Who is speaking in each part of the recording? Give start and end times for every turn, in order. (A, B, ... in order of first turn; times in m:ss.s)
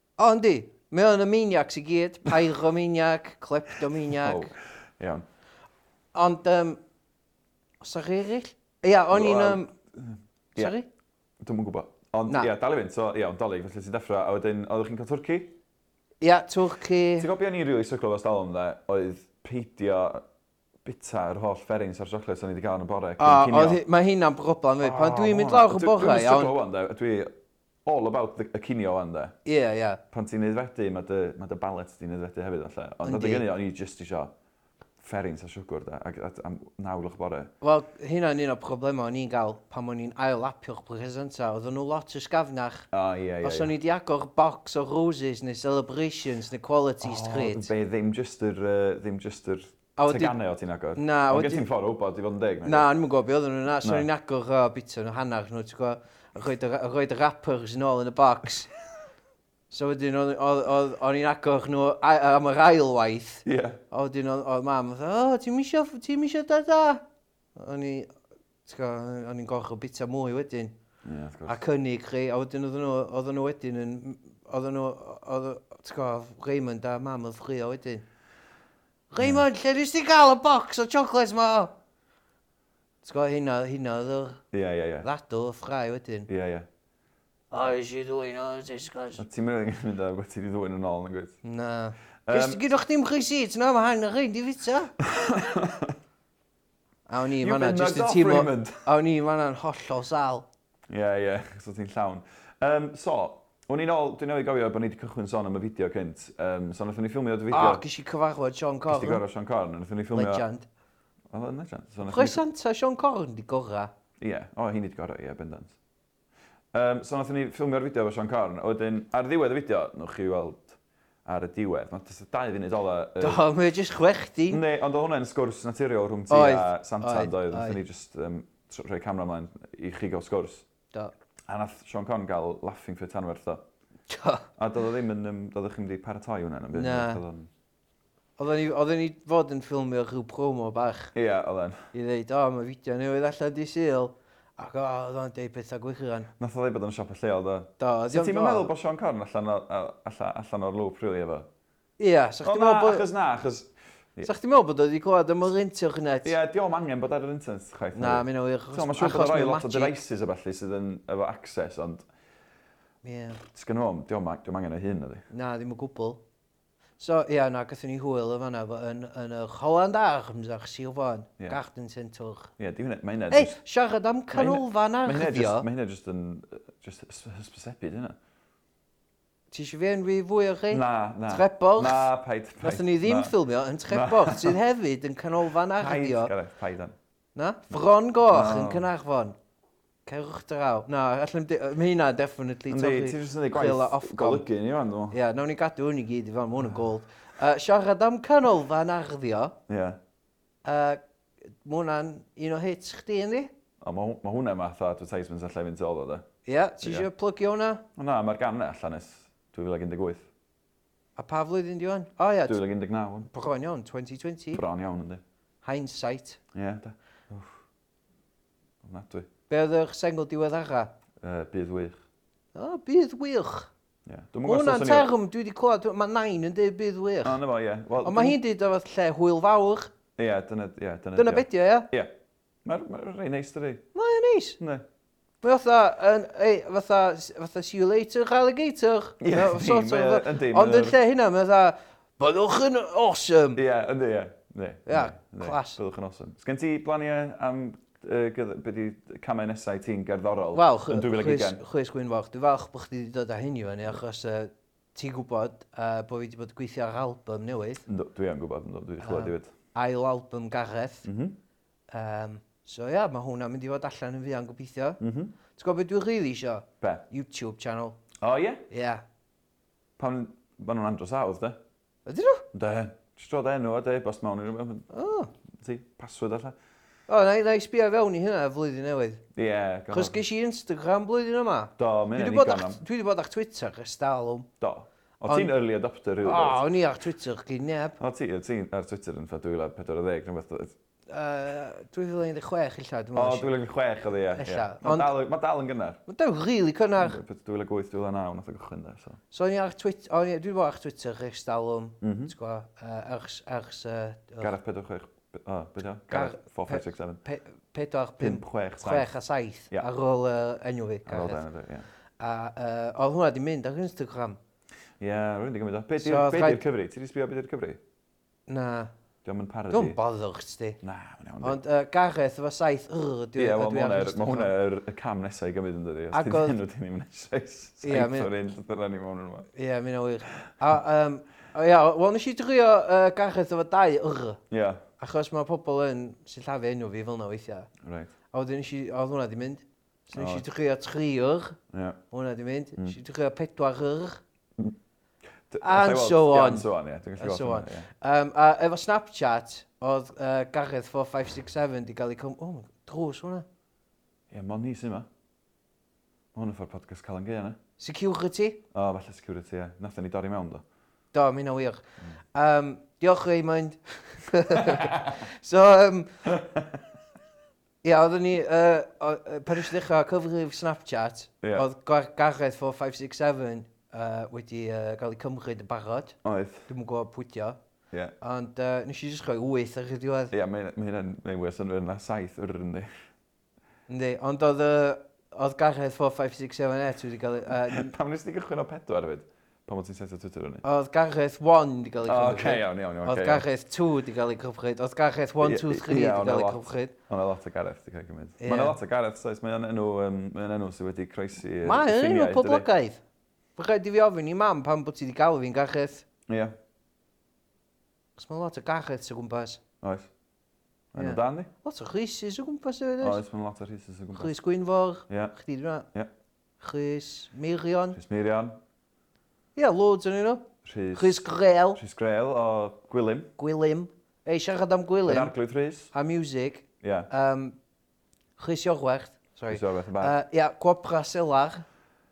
0:00.2-0:04.5 A
0:03.9-0:05.2 B
0:06.1-0:06.8 A
0:07.8-0:09.7 A
0:09.1-0:10.8 B
0:10.6-0:10.9 A
0:11.4-0:15.6 B
0:16.2-0:17.3 A
0:17.2-0:20.2 B
0:20.8-0:23.8 B
0:23.2-0:26.5 A
0:24.8-0:27.3 B
0:27.8-0:29.4 B
0:29.4-0:30.0 A
0:30.1-0:34.3 B
0:33.0-0:33.4 A
0:35.0-0:37.5 B
0:37.6-0:42.9 A
0:42.9-0:43.7 B
0:43.4-0:47.7 A
0:47.0-0:52.9 B
0:50.0-0:50.4 A
0:51.0-0:51.6 A
0:52.6-0:58.7 A
0:59.7-1:07.0 A
1:03.5-1:03.8 B
1:07.6-1:08.1 A
1:08.6-1:10.7 A
1:11.0-1:11.6 B
1:11.5-1:18.0 A
1:19.1-1:21.7 A
1:23.0-1:24.4 A
1:24.5-1:25.1 B
1:25.0-1:26.3 A
1:26.3-1:26.7 B
1:27.5-1:29.2 A
1:29.2-1:31.4 B
1:31.4-1:34.9 A
1:32.3-1:32.6 B
1:35.0-1:36.0 B
1:37.1-1:40.5 A
1:37.4-1:38.8 B
1:40.9-1:47.8 B
1:47.5-1:49.2 A
1:48.9-1:50.4 B
1:50.1-1:50.7 A
1:51.3-1:52.4 B
1:52.1-1:53.9 A
1:54.2-1:55.8 B
1:56.7-2:03.4 B
2:03.2-2:04.6 A
2:04.5-2:10.7 B
2:06.3-2:07.8 A
2:11.5-2:13.6 B
2:14.1-2:14.5 A
2:14.6-2:17.5 B
2:16.7-2:17.2 A
2:18.4-2:21.1 A
2:21.2-2:21.9 B
2:21.9-2:26.3 A
2:26.4-2:31.5 B
2:27.8-2:28.7 A
2:32.0-2:33.1 A
2:32.4-2:34.3 B
2:34.2-2:36.3 A
2:36.2-2:42.1 B
2:38.0-2:40.0 A
2:43.0-2:43.4 A
2:43.4-2:45.2 B
2:45.3-2:46.2 A
2:47.0-2:52.5 A
2:52.6-2:53.6 B
2:53.3-2:55.7 A
2:54.3-2:58.2 B
2:59.5-3:02.1 A
3:00.7-3:03.3 B
3:02.6-3:06.3 A
3:03.9-3:04.6 B
3:05.8-3:07.0 B
3:07.4-3:09.4 A
3:08.3-3:08.9 B
3:10.1-3:14.5 A
3:12.7-3:15.2 B
3:15.1-3:19.6 A
3:19.7-3:20.0 B
3:20.6-3:21.0 A
3:21.6-3:23.5 A
3:23.8-3:26.2 B
3:26.5-3:27.8 A
3:26.8-3:27.1 B
3:28.0-3:30.3 B
3:31.2-3:32.6 A
3:32.5-3:33.3 B
3:33.3-3:34.6 A
3:34.5-3:35.2 B
3:35.6-3:36.4 A
3:36.5-3:37.6 B
3:38.8-3:39.3 B
3:39.5-3:40.9 A
3:41.2-3:42.0 B
3:42.5-3:43.7 A
3:44.1-3:45.1 B
3:44.5-3:47.4 A
3:47.2-3:48.4 B
3:48.0-3:49.9 A
3:50.2-3:52.1 B
3:51.2-3:51.9 A
3:52.6-3:53.9 B
3:54.0-3:54.6 A
3:54.6-3:54.9 B
3:55.4-4:03.6 A
3:59.2-4:01.0 B
4:03.6-4:11.6 B
4:04.9-4:05.8 A
4:10.5-4:17.8 A
4:17.9-4:19.5 B
4:19.0-4:21.1 A
4:21.0-4:21.4 B
4:21.9-4:25.0 A
4:25.0-4:25.3 B
4:25.5-4:28.0 A
4:28.2-4:28.6 B
4:28.7-4:29.0 A
4:30.0-4:31.6 B
4:32.1-4:32.5 A
4:32.5-4:34.9 B
4:34.9-4:35.3 A
4:35.6-4:36.6 B
4:37.1-4:39.2 A
4:39.4-4:40.2 B
4:39.9-4:44.5 A
4:41.8-4:42.8 B
4:44.6-4:46.7 B
4:46.2-4:48.0 A
4:48.0-4:50.8 B
4:51.1-4:53.5 A
4:53.2-4:56.0 B
4:54.4-4:55.1 A
4:56.1-4:57.2 A
4:57.0-4:59.2 B
4:59.3-5:04.5 A
5:02.0-5:02.3 B
5:04.4-5:07.2 B
5:06.1-5:11.4 A
5:08.2-5:09.1 B
5:11.1-5:11.9 B
5:12.2-5:14.4 A
5:15.0-5:17.8 B
5:16.0-5:16.6 A
5:18.5-5:18.9 A
5:19.2-5:20.0 B
5:19.7-5:20.8 A
5:20.8-5:21.6 B
5:21.4-5:24.5 A
5:23.4-5:29.5 B
5:26.1-5:26.6 A
5:27.8-5:28.3 A
5:29.6-5:34.4 A
5:34.5-5:34.8 B
5:35.0-5:37.7 A
5:37.8-5:38.1 B
5:38.3-5:41.6 A
5:40.2-5:40.4 B
5:41.7-5:42.0 B
5:42.1-5:44.2 A
5:45.5-5:47.9 B
5:45.6-5:53.5 A
5:54.3-5:55.1 B
5:56.3-5:57.6 B
5:57.8-5:58.6 A
5:58.7-6:00.6 B
6:01.1-6:01.8 A
6:02.3-6:06.1 A
6:04.5-6:05.1 B
6:06.3-6:06.8 B
6:07.8-6:16.2 A
6:16.2-6:16.7 B
6:16.7-6:17.6 A
6:18.2-6:20.3 A
6:20.3-6:22.9 B
6:23.9-6:27.9 A
6:27.5-6:30.6 B
6:30.6-6:36.9 A
6:32.1-6:33.4 B
6:35.4-6:42.7 B
6:38.4-6:38.8 A
6:41.6-6:43.0 A
6:43.6-6:46.1 A
6:46.3-6:46.6 B
6:48.2-6:49.6 A
6:49.8-6:50.1 B
6:50.9-6:51.5 B
6:51.0-6:53.2 A
6:53.0-6:54.3 B
6:54.2-6:55.9 A
6:55.1-6:55.3 B
6:56.6-6:58.0 A
6:58.0-6:58.6 B
6:59.6-7:01.8 A
7:00.6-7:03.3 B
7:03.4-7:05.3 A
7:05.1-7:05.9 B
7:05.9-7:07.6 A
7:06.8-7:07.1 B
7:08.4-7:11.6 A
7:09.5-7:10.2 B